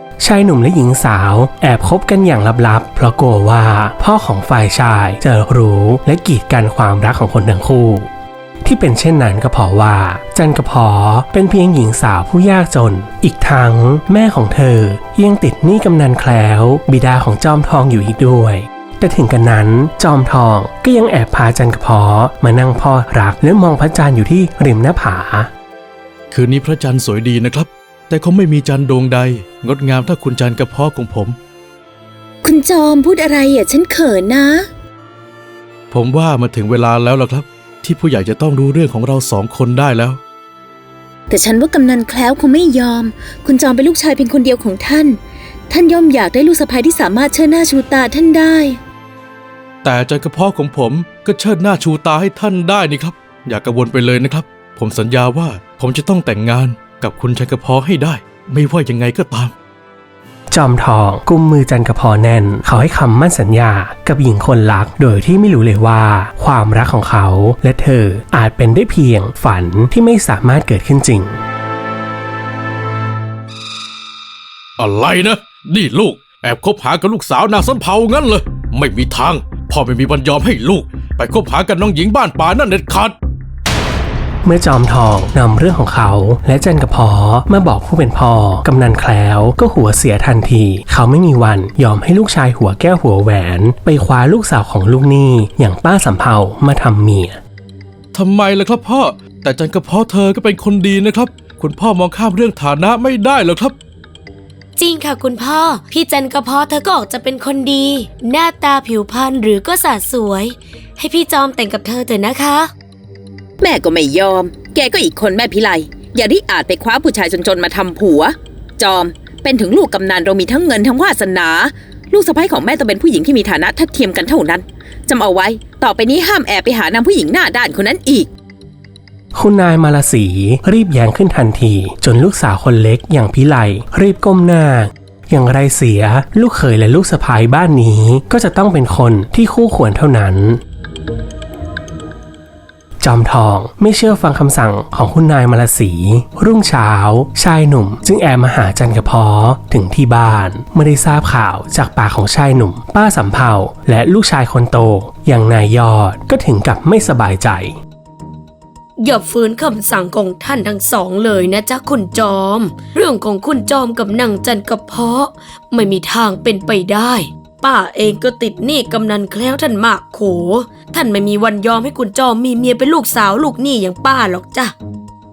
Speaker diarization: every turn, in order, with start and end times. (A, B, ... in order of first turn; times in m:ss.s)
0:00.2-0:08.1 A
0:08.6-0:25.5 A
0:26.3-0:31.4 B
0:32.4-0:34.7 C
0:35.9-0:40.2 B
0:41.3-0:45.2 C
0:45.7-0:48.8 C
0:49.8-0:59.5 B
1:00.5-1:11.4 A
1:14.8-1:23.1 B
1:24.4-1:37.4 A
1:38.1-1:43.8 B
1:44.8-1:52.7 D
1:53.6-2:08.3 C
2:09.4-2:20.6 A
2:23.0-2:37.8 A
2:39.0-2:54.7 D